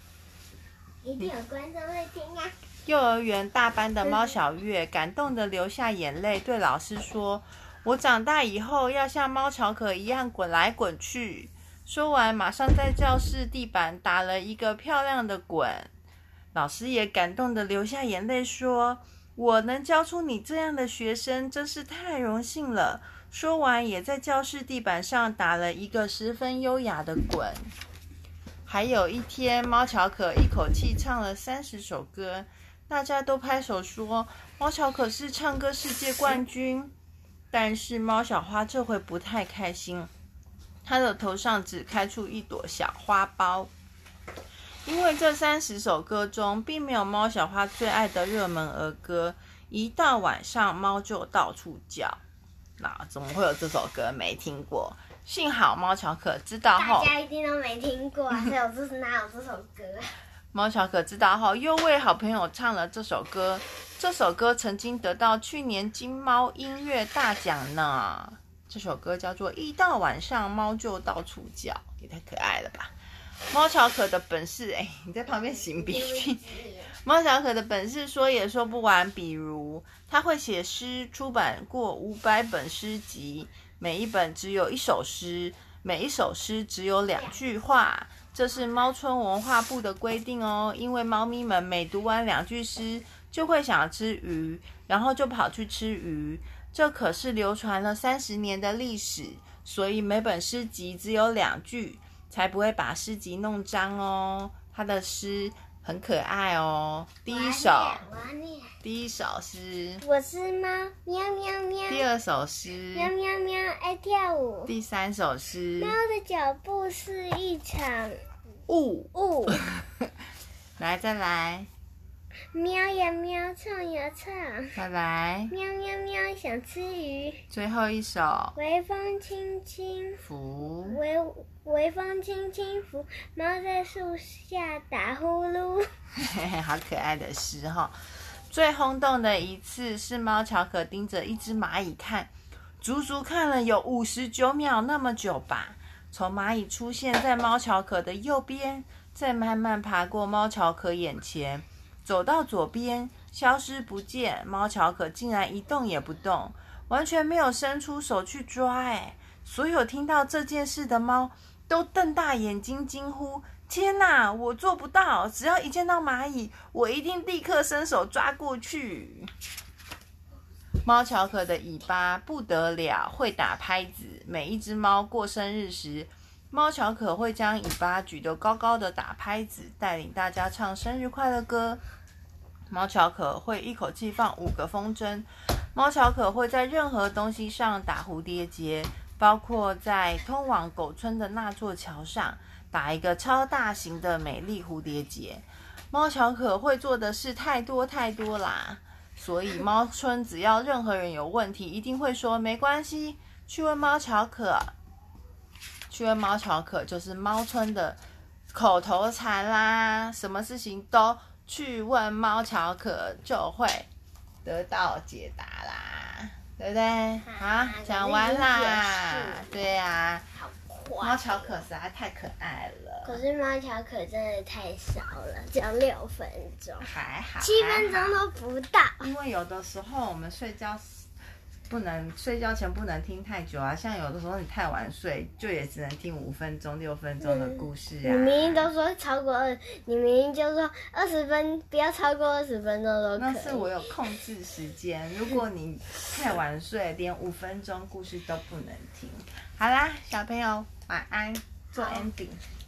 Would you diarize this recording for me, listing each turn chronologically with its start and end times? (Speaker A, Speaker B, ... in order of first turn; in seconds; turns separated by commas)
Speaker A: 1.0-2.5, Speaker B: 2.9-15.9, Speaker A: 4.0-4.3, Speaker B: 16.5-27.7, Speaker B: 28.7-36.9, Speaker B: 37.5-40.1, Speaker B: 40.8-43.7, Speaker B: 44.8-52.2, Speaker B: 52.8-57.1, Speaker A: 56.8-60.1, Speaker B: 60.5-72.9, Speaker B: 73.5-76.4, Speaker A: 75.3-76.9, Speaker B: 77.0-108.0, Speaker A: 107.3-108.7, Speaker B: 108.8-110.0, Speaker A: 110.0-112.1, Speaker B: 111.9-113.1, Speaker A: 112.9-114.7, Speaker B: 114.7-116.0, Speaker A: 115.8-118.2, Speaker B: 118.7-120.0, Speaker A: 119.1-119.6, Speaker B: 120.8-121.7, Speaker A: 122.5-124.7, Speaker B: 124.8-125.5, Speaker A: 125.5-127.5, Speaker B: 127.5-128.6, Speaker A: 128.6-130.2, Speaker B: 130.2-131.0, Speaker A: 130.8-135.8, Speaker B: 136.1-169.3, Speaker B: 170.8-181.8, Speaker B: 182.7-204.7, Speaker B: 205.9-208.0, Speaker B: 208.5-213.9, Speaker B: 214.4-220.3, Speaker A: 217.3-219.7, Speaker A: 220.3-221.6, Speaker B: 221.0-223.2, Speaker A: 223.0-226.9, Speaker B: 226.8-228.2, Speaker A: 227.4-229.1, Speaker B: 229.0-231.1, Speaker B: 231.7-238.7, Speaker A: 237.2-243.7, Speaker B: 243.2-252.4, Speaker A: 251.8-252.0